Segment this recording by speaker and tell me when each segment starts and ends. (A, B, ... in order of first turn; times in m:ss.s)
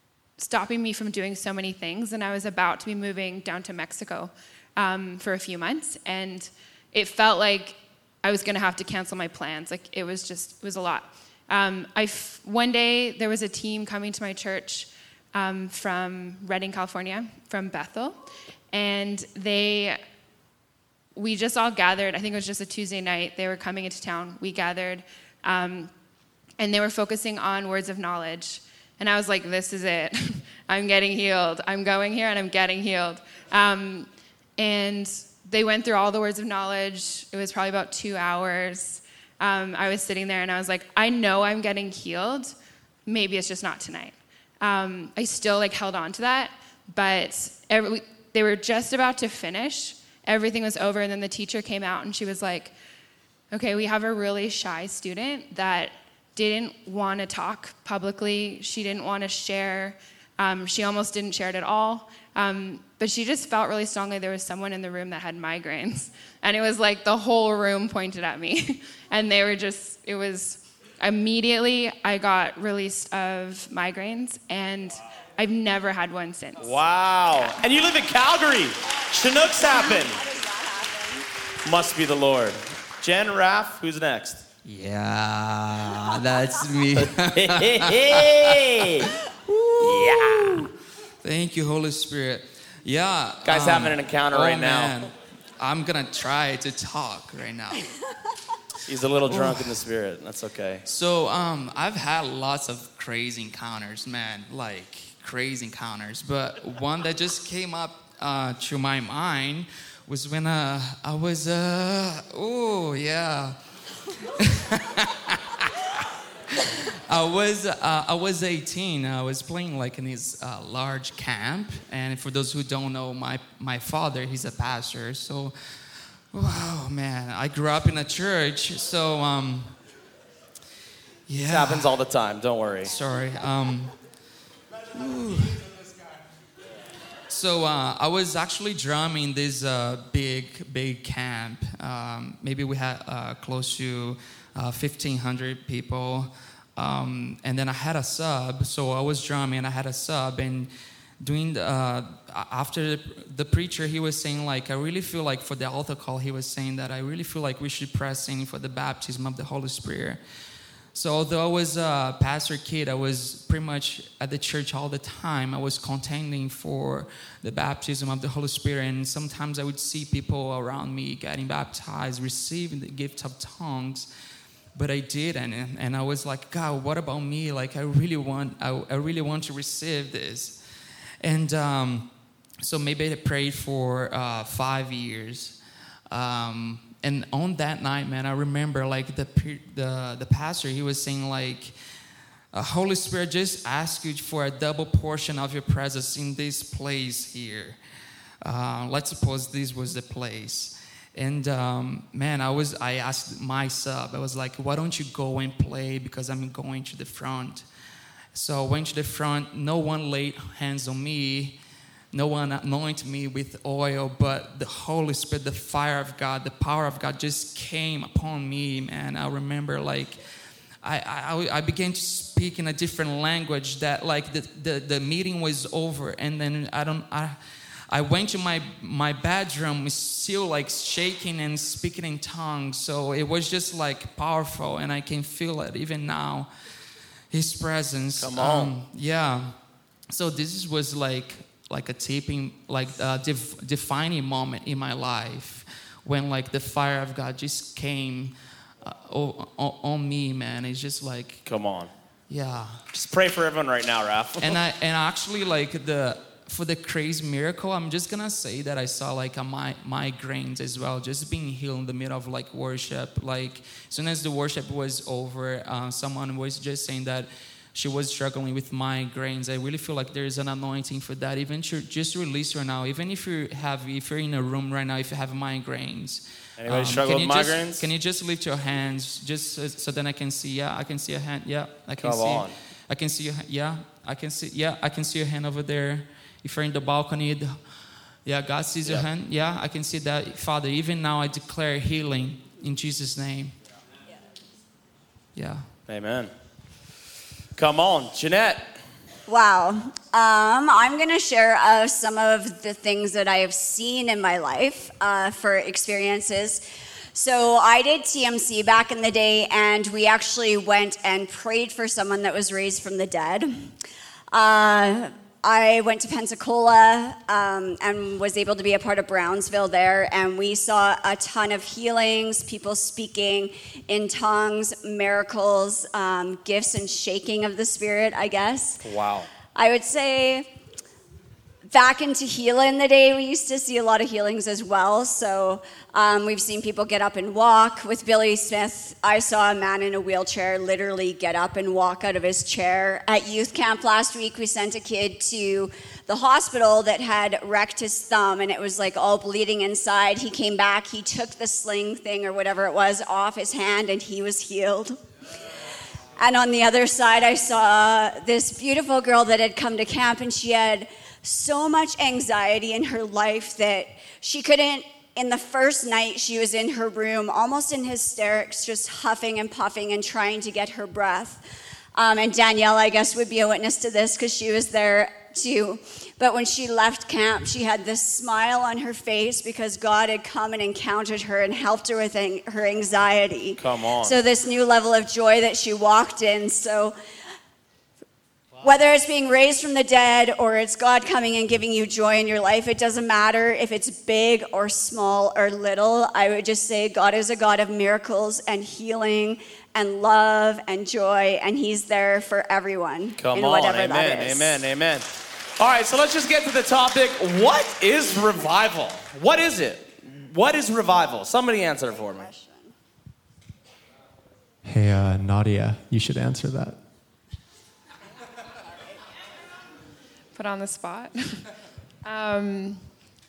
0:00.4-0:20.0 A
0:21.2-0:25.9 A
0:26.6-0:42.6 A
0:43.1-0:52.7 A
0:53.5-1:16.8 A
1:16.6-1:20.2 B
1:19.5-1:21.3 C
1:21.6-1:24.4 B
1:24.6-1:30.7 D
1:27.0-1:29.1 B
1:29.8-1:30.7 B
1:31.2-1:38.0 D
1:33.4-1:35.0 B
1:38.8-1:40.8 B
1:39.3-1:39.7 D
1:40.9-1:53.6 D
1:54.4-1:55.9 D
1:56.5-2:09.8 D
2:11.3-2:12.0 D
2:11.4-2:12.9 B
2:12.8-2:14.0 D
2:14.9-2:15.9 D
2:17.3-2:40.2 D
2:40.9-2:54.1 D
2:54.7-3:11.8 D
3:12.5-3:17.8 D
3:18.4-3:27.7 D
3:28.3-3:31.6 D
3:32.1-3:40.2 D
3:40.8-3:56.5 D
3:57.3-3:59.6 D
3:58.2-3:58.7 B
4:00.1-4:11.4 D
4:11.4-4:11.9 B
4:12.3-4:12.8 D
4:12.9-4:14.6 B
4:14.4-4:53.6 D
4:36.6-4:37.8 B
4:42.0-4:42.6 B
4:55.3-4:55.7 D
4:55.9-4:56.3 B
4:57.6-4:58.7 B
4:59.3-5:06.6 C
5:07.1-5:13.7 C
5:14.3-5:28.8 C
5:28.8-5:29.3 B
5:29.5-5:30.5 C
5:31.7-5:55.0 C
5:56.2-6:11.4 C
6:11.9-6:27.0 C
6:23.6-6:24.2 B
6:28.6-6:44.6 C
6:43.2-6:52.3 B
6:51.9-6:52.7 C
6:54.6-6:56.8 E
6:58.7-6:59.0 C
7:00.3-7:01.5 A
7:02.0-7:02.9 A